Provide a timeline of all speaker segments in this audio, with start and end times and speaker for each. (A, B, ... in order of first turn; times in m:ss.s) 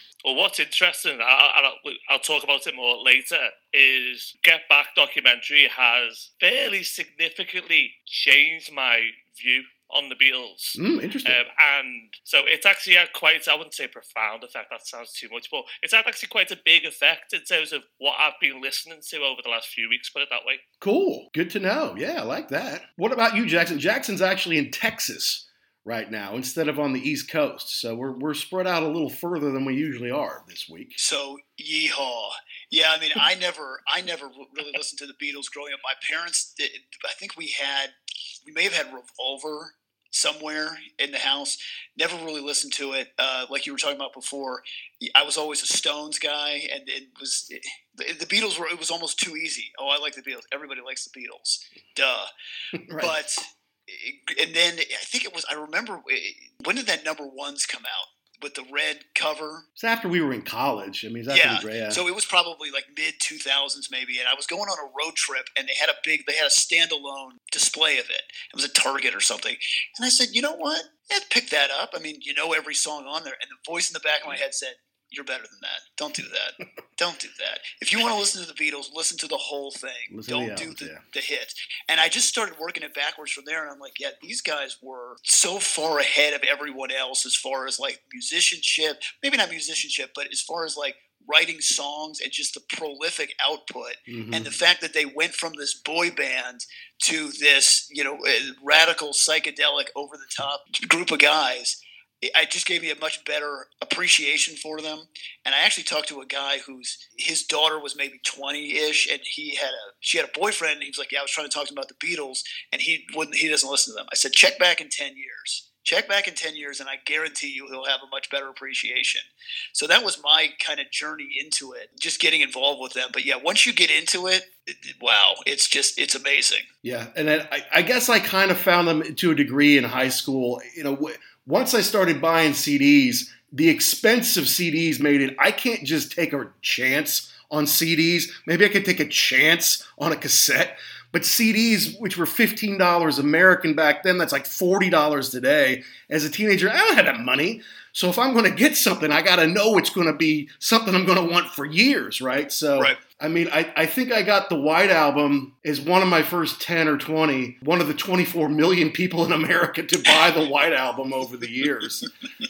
0:00.2-0:20.6 A
0:10.8-0:11.4 B
0:20.8-0:31.0 B
0:31.0-0:37.9 C
0:38.4-0:52.3 C
0:52.8-0:53.2 B
0:53.0-0:59.7 C
0:59.8-1:02.0 B
1:01.3-2:06.7 C
1:20.1-1:21.0 B
1:34.1-1:34.6 B
2:06.8-2:42.1 B